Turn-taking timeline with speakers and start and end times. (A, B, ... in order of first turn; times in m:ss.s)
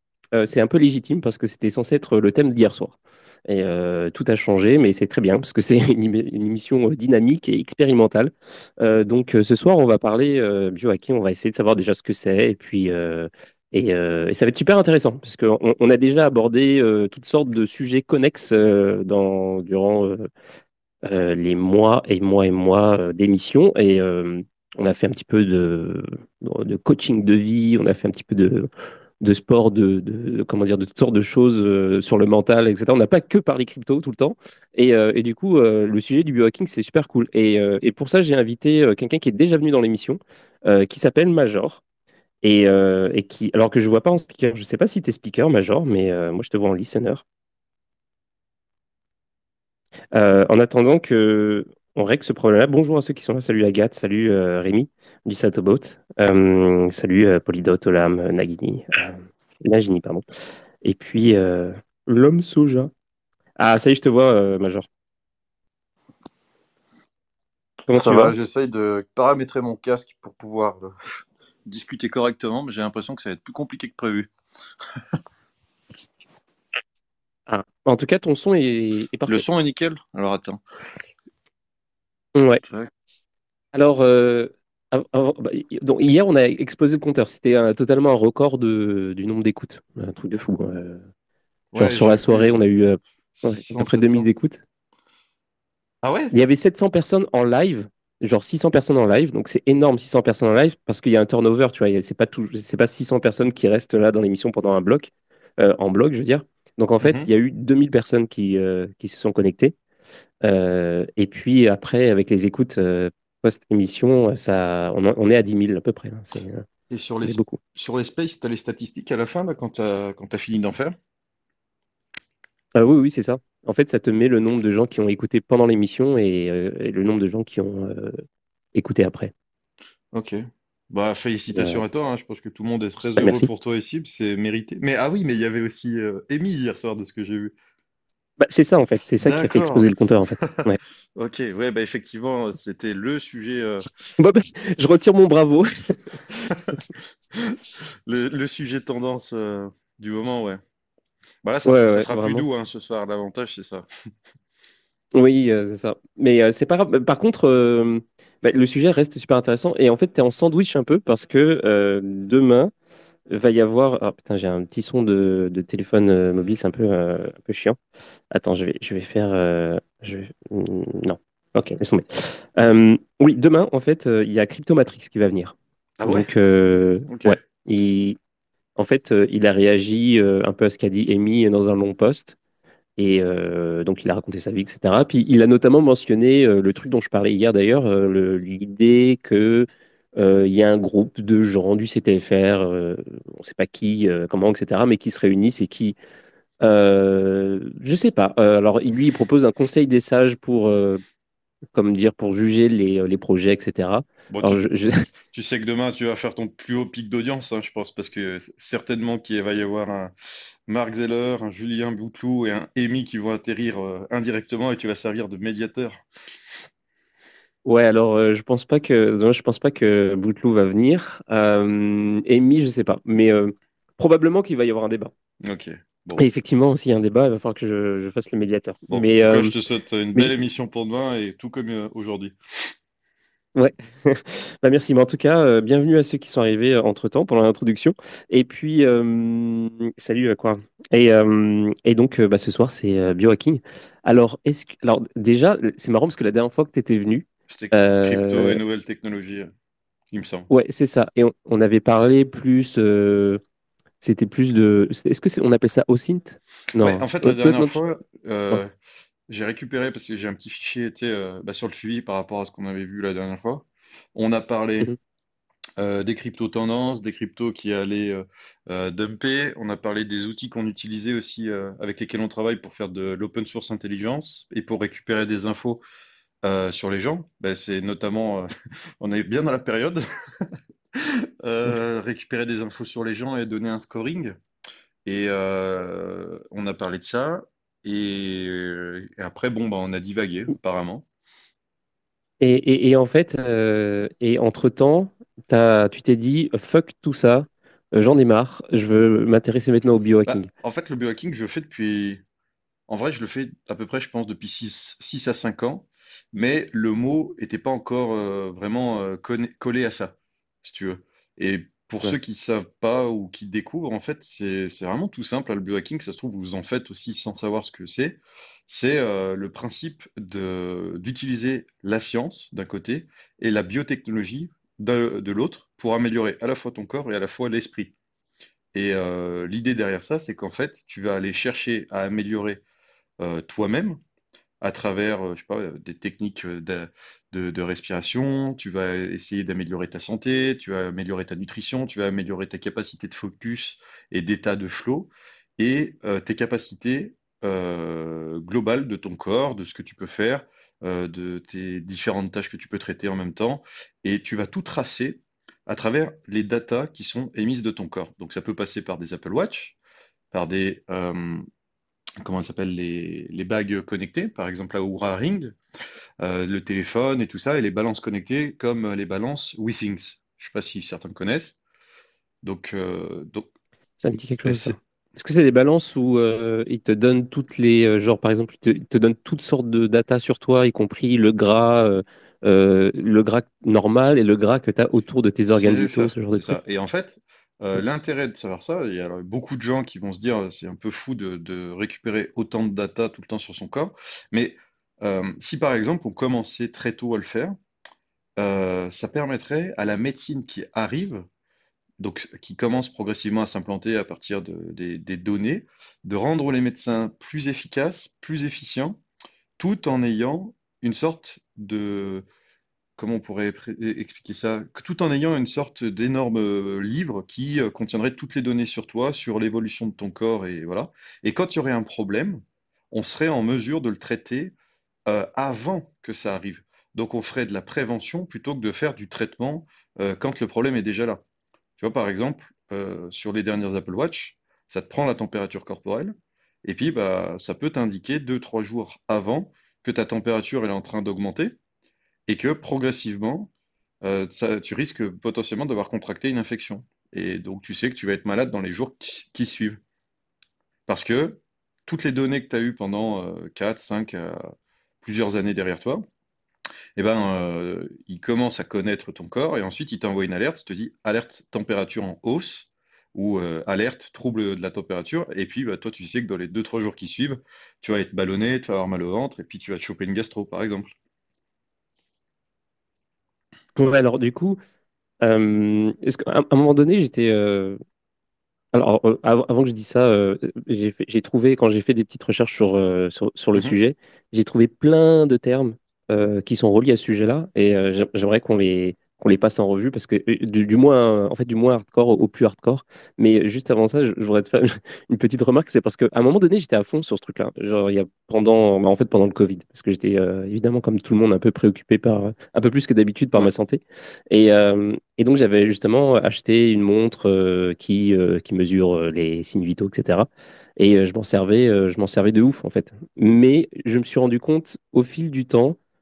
0:00.4-0:03.0 A
0:03.5-0:20.3 A
0:21.0-0:28.7 A
0:29.2-0:41.8 A
0:42.4-0:47.2 A
0:50.1-1:00.2 A
1:00.8-1:02.9 A
1:03.6-1:04.9 A
1:07.9-1:08.3 A
1:07.9-1:14.3 B
1:17.5-1:19.4 A
1:19.3-1:20.6 B
1:22.4-1:22.6 A
1:22.6-1:22.9 B
1:23.7-1:31.0 A
1:31.7-1:32.6 B
1:31.8-1:34.6 A
1:33.3-1:34.3 B
1:36.0-1:36.3 B
1:36.3-1:49.8 A
1:47.0-1:47.3 B
1:50.4-1:56.7 A
1:56.9-2:01.0 B
1:57.2-1:57.6 A
2:02.8-2:08.2 A
2:08.7-2:09.3 A
2:10.1-2:17.5 B
2:11.5-2:11.8 A
2:13.2-2:13.5 A
2:18.4-2:20.8 A
2:19.2-2:23.9 B
2:24.2-2:26.6 A
2:27.3-2:30.6 B
2:31.4-2:33.9 B
2:31.7-2:32.5 A
2:35.2-2:42.7 A
2:43.3-2:47.8 A
2:48.3-2:58.2 A
2:56.0-2:56.3 B
2:57.1-2:57.4 B
2:58.8-3:02.4 A
3:03.0-3:16.0 A
3:16.6-3:21.0 A
3:21.7-3:25.1 A
3:24.3-3:24.6 B
3:25.3-3:30.1 B
3:30.7-3:36.0 B
3:37.6-3:45.1 A
3:45.4-3:46.3 B
3:46.2-3:49.6 A
3:48.9-3:52.8 B
3:53.6-4:08.6 A
4:07.5-4:09.5 B
4:10.1-4:10.5 B
4:10.5-4:13.4 A
4:14.0-4:17.8 A
4:16.8-4:18.7 B
4:19.3-4:24.9 B
4:25.8-4:35.8 B
4:36.4-4:38.5 B
4:39.0-4:44.4 B
4:45.0-4:51.0 B
4:52.4-5:00.5 A
5:00.3-5:02.2 B
5:02.9-5:27.9 B
5:28.7-5:32.6 B
5:33.2-5:34.0 B
5:34.6-5:59.8 B
6:00.3-6:01.5 B
6:02.2-6:05.6 B
6:06.2-6:11.6 B
6:12.4-6:13.5 B
6:14.0-6:26.6 A
6:14.4-6:14.8 B
6:25.5-6:37.6 B
6:38.4-6:41.3 B
6:42.0-6:49.0 B
6:49.6-6:52.3 B
6:53.0-7:04.5 B
7:05.1-7:11.2 B
7:11.8-7:16.1 B
7:16.6-7:21.6 B
7:22.3-7:23.5 B
7:24.0-7:29.8 B
7:30.9-7:34.4 B
7:35.0-7:36.1 B
7:37.0-7:50.9 B
7:53.8-7:54.6 A
7:55.2-7:57.8 A
7:58.7-8:35.8 A